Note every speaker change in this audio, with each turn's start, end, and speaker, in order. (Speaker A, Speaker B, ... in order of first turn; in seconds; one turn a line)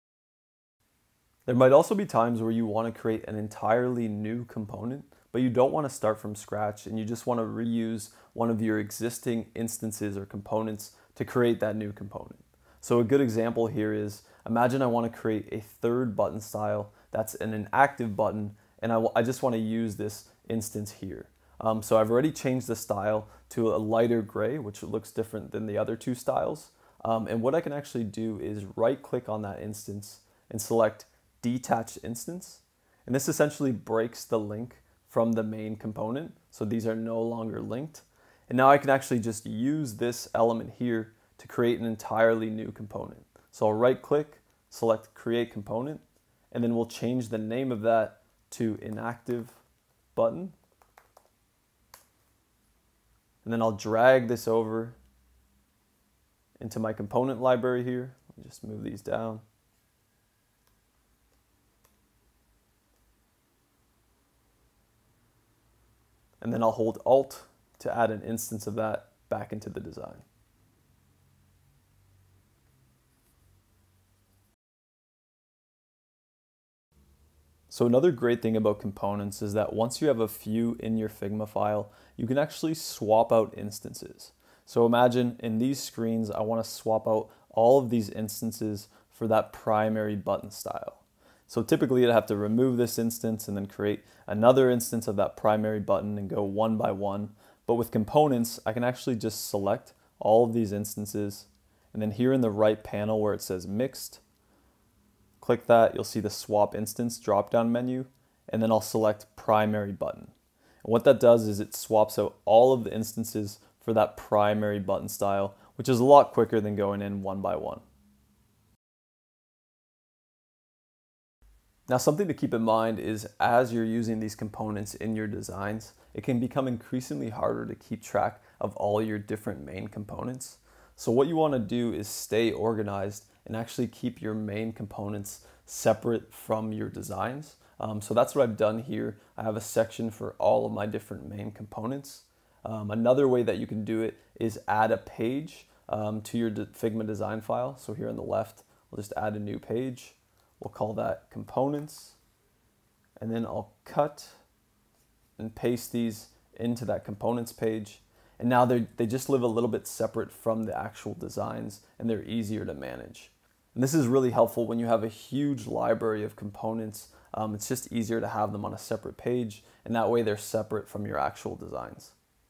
Speaker A: 1.4-49.6
Speaker A: 50.1-50.5
Speaker A: 53.4-55.0
Speaker A: 56.6-59.4
Speaker A: 66.4-70.2
Speaker A: 77.7-104.2
Speaker A: 105.4-110.3
Speaker A: 110.8-117.8
Speaker A: 121.9-152.2
Speaker A: 153.2-154.4
Speaker A: 155.4-172.2